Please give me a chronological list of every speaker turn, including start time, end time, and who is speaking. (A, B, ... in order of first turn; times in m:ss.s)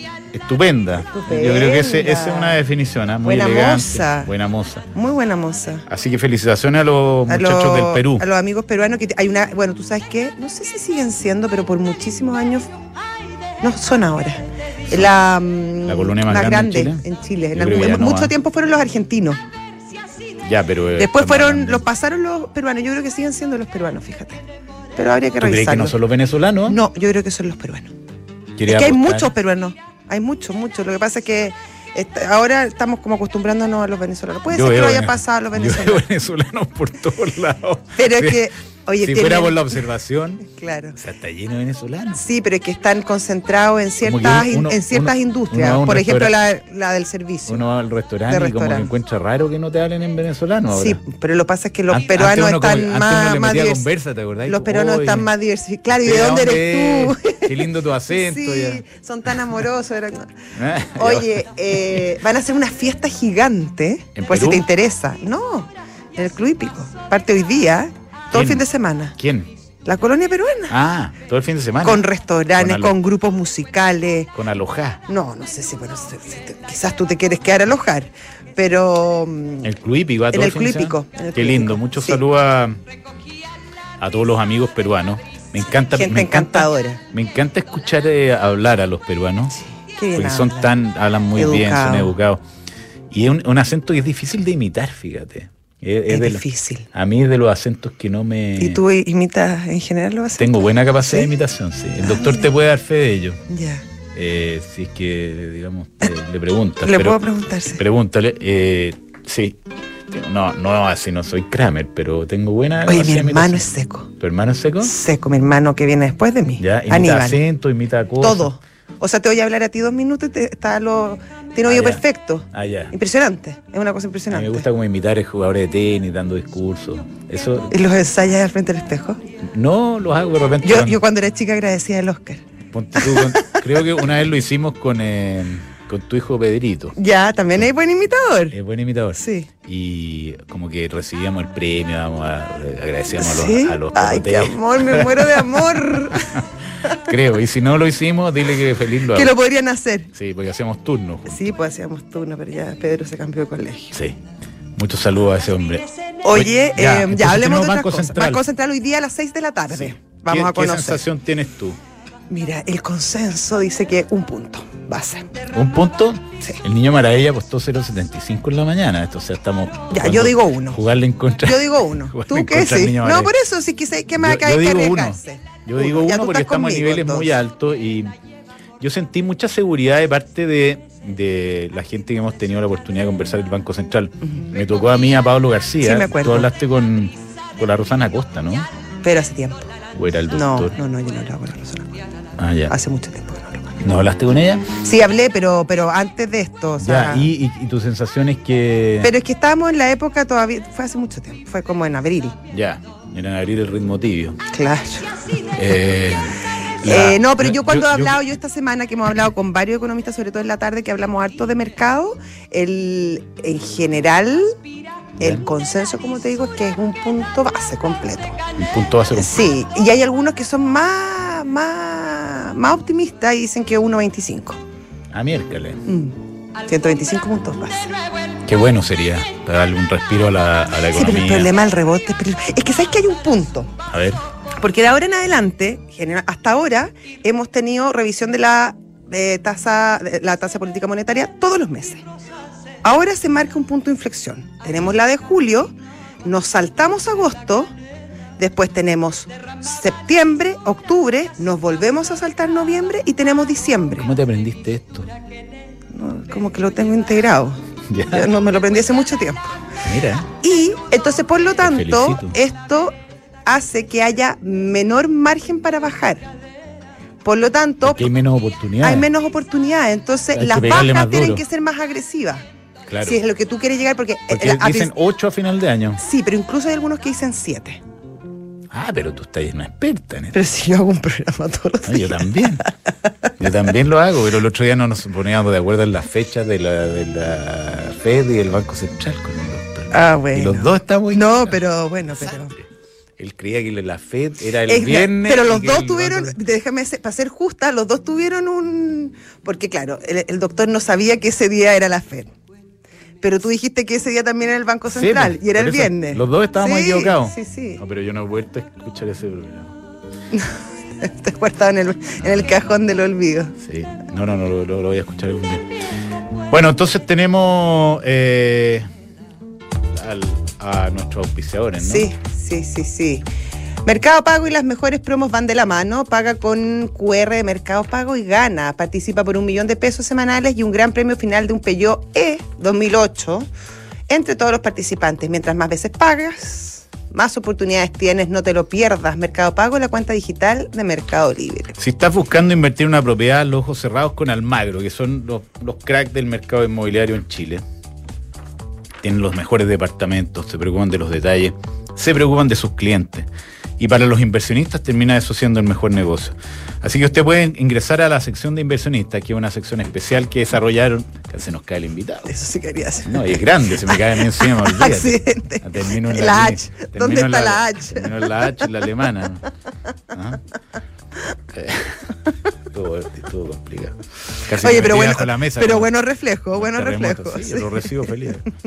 0:00.3-0:04.9 A
0:01.1-0:02.6 B
0:03.2-0:04.3 B
0:04.9-0:05.9 B
0:05.9-0:08.3 A
0:07.3-0:12.7 B
0:13.6-0:19.4 B
0:15.9-0:18.3 A
0:20.4-0:21.8 A
0:21.0-0:24.4 B
0:25.0-0:26.0 B
0:25.4-0:26.8 A
0:26.7-0:27.9 B
0:28.6-0:29.3 A
0:28.7-0:36.1 B
0:34.5-0:38.5 A
0:38.0-0:39.8 B
0:39.0-0:40.4 A
0:40.4-0:41.0 B
0:41.0-0:42.2 A
0:42.2-0:47.7 B
0:44.0-0:46.3 A
0:47.5-0:51.0 A
0:48.3-0:48.9 B
0:50.7-0:53.9 B
0:51.9-0:55.3 A
0:54.5-1:00.3 B
0:55.9-0:58.8 A
1:00.6-1:01.5 A
1:01.0-1:09.2 B
1:04.2-1:04.7 A
1:08.3-1:09.5 A
1:09.8-1:10.8 B
1:10.7-1:13.0 A
1:11.8-1:14.3 B
1:14.3-1:15.0 A
1:15.1-1:19.7 B
1:19.6-1:22.8 A
1:20.3-1:22.2 B
1:24.0-1:29.6 A
1:25.8-1:27.0 B
1:29.6-1:30.7 B
1:30.1-1:32.4 A
1:31.4-1:32.2 B
1:33.1-1:38.8 A
1:36.1-1:36.9 B
1:38.6-1:41.3 B
1:40.4-1:43.4 A
1:42.0-1:42.4 B
1:43.5-1:43.8 B
1:44.1-1:47.2 A
1:46.8-1:47.8 B
1:47.7-1:49.6 A
1:50.1-1:53.7 A
1:52.9-1:54.1 B
1:54.2-1:54.9 A
1:54.8-1:57.4 B
1:56.6-1:58.5 A
1:58.2-2:04.7 B
2:01.7-2:02.9 A
2:04.3-2:07.7 A
2:07.7-2:09.2 B
2:09.4-2:11.0 A
2:10.6-2:12.4 B
2:12.7-2:17.0 A
2:13.0-2:13.6 B
2:17.0-2:18.6 B
2:18.5-2:29.3 A
2:19.2-2:19.5 B
2:23.2-2:26.4 B
2:29.1-2:30.1 B
2:30.1-2:31.5 A
2:31.3-2:34.0 B
2:33.9-2:34.2 A
2:34.8-2:38.4 A
2:36.2-2:41.0 B
2:39.7-2:41.8 A
2:42.3-2:45.3 B
2:45.5-2:53.4 A
2:49.9-2:50.8 B
2:51.4-2:57.4 B
2:54.2-2:58.1 A
2:58.8-3:08.7 A
3:05.8-3:06.5 B
3:09.0-3:09.7 B
3:09.9-3:10.8 A
3:10.3-3:12.0 B
3:12.4-3:12.7 A
3:12.7-3:13.8 B
3:13.8-3:14.7 A
3:14.8-3:17.3 B
3:16.8-3:19.1 A
3:19.0-3:22.4 B
3:22.5-3:24.4 A
3:24.5-3:25.6 B
3:25.5-3:28.2 A
3:26.8-3:34.6 B
3:35.2-3:38.4 B
3:35.2-3:35.5 A
3:38.6-3:39.5 A
3:39.1-3:44.6 B
3:45.1-3:45.8 A
3:45.9-3:47.9 B
3:48.4-3:51.5 A
3:50.9-3:53.7 B
3:53.9-3:54.2 A
3:54.6-4:02.0 B
4:02.8-4:07.7 B
4:08.4-4:14.1 B
4:14.0-4:15.1 A
4:15.9-4:19.6 B
4:17.9-4:18.3 A
4:19.8-4:20.3 A
4:20.4-4:26.3 B
4:21.6-4:22.4 A
4:27.2-4:28.1 B
4:27.8-4:29.1 A
4:28.8-4:32.4 B
4:30.3-4:31.4 A
4:32.9-4:33.2 A
4:33.0-4:34.9 B
4:34.3-4:36.0 A
4:36.0-4:37.8 B
4:38.7-4:40.3 A
4:40.3-4:42.7 B
4:41.8-4:42.6 A
4:43.4-4:51.2 A
4:49.9-4:52.6 B
4:53.2-4:56.4 A
4:54.7-5:02.3 B
5:03.2-5:07.8 B
5:04.9-5:09.8 A
5:10.3-5:13.6 B
5:13.6-5:15.7 A
5:16.5-5:18.9 A
5:19.9-5:22.1 A
5:21.8-5:23.3 B
5:23.8-5:33.5 B
5:34.1-5:41.8 B
5:41.8-5:47.6 A
5:49.0-5:53.3 A
5:53.8-6:02.3 A
6:02.3-6:08.4 B
6:03.1-6:09.4 A
6:10.1-6:10.4 A
6:11.5-6:12.1 A
6:12.7-6:15.9 A
6:14.6-6:17.9 B
6:16.5-6:18.5 A